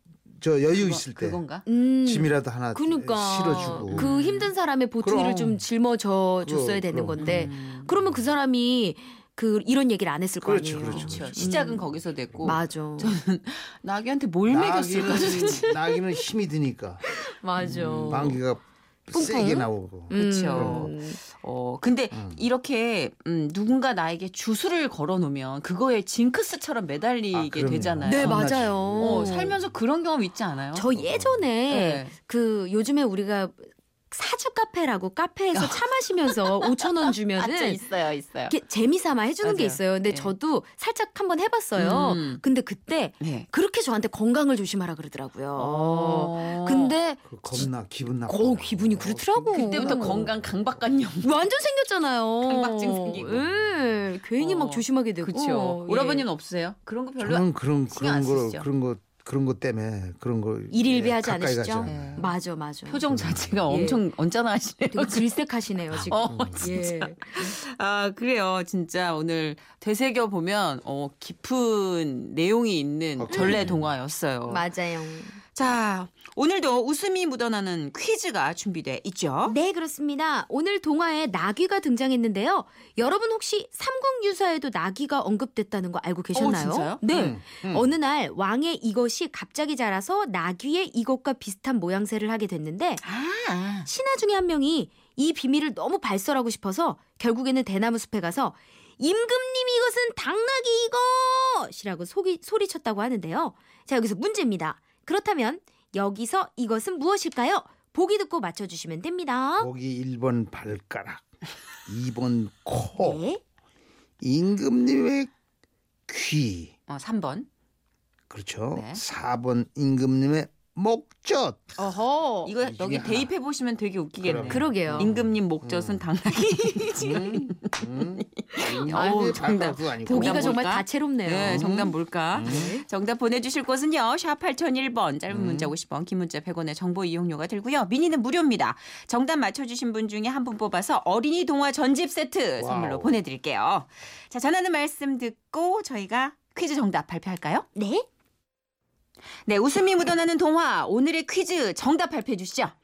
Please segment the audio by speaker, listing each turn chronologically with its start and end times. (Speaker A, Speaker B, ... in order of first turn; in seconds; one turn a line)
Speaker A: 0.3-1.4
Speaker B: 0.7-1.6
Speaker C: 1.6-11.9
Speaker A: 2.0-4.1
Speaker B: 3.5-4.5
Speaker A: 5.0-5.6
Speaker A: 6.4-7.5
Speaker B: 7.2-7.9
Speaker A: 10.4-11.7
Speaker B: 10.8-16.1
Speaker C: 12.4-13.2
Speaker A: 14.5-17.0
Speaker C: 17.1-18.4
Speaker B: 17.6-18.4
Speaker A: 17.6-20.9
Speaker C: 19.1-21.2
Speaker B: 20.1-30.9
Speaker A: 22.1-22.4
Speaker A: 27.3-29.6
Speaker C: 28.0-29.6
Speaker C: 30.7-37.8
Speaker A: 30.9-31.4
Speaker B: 31.7-32.1
Speaker B: 35.5-38.5
Speaker C: 38.5-47.7
Speaker B: 39.4-40.3
Speaker B: 41.8-42.4
Speaker B: 43.2-43.5
Speaker B: 45.6-46.9
Speaker A: 47.2-50.4
Speaker C: 48.2-50.3
Speaker B: 49.5-51.4
Speaker C: 51.2-56.3
Speaker B: 52.4-53.5
Speaker B: 54.4-58.7
Speaker A: 57.2-62.2
Speaker C: 60.7-63.1
Speaker B: 61.8-62.3
Speaker B: 62.9-65.3
Speaker A: 63.1-63.7
Speaker C: 63.7-64.0
Speaker C: 64.9-67.5
Speaker B: 66.0-74.8
Speaker A: 66.3-66.7
Speaker A: 73.2-73.9
Speaker C: 73.3-73.7
Speaker C: 74.5-75.4
Speaker B: 75.4-79.5
Speaker C: 79.4-93.0
Speaker B: 86.3-87.0
Speaker A: 87.1-87.9
Speaker B: 93.0-93.9
Speaker C: 93.8-109.7
Speaker A: 109.6-111.2
Speaker A: 111.9-113.2
Speaker C: 113.0-113.4
Speaker A: 114.2-115.3
Speaker A: 116.1-116.7
Speaker B: 116.9-117.5
Speaker A: 118.3-121.6
Speaker B: 118.7-119.0
Speaker C: 121.8-122.5
Speaker B: 122.4-147.7
Speaker A: 122.6-123.3
Speaker A: 124.2-126.1
Speaker C: 124.3-125.1
Speaker A: 126.9-130.6
Speaker C: 128.6-129.3
Speaker C: 130.0-132.8
Speaker A: 131.4-132.7
Speaker A: 135.3-135.7
Speaker A: 142.6-143.2
Speaker C: 147.8-148.1
Speaker B: 149.4-152.7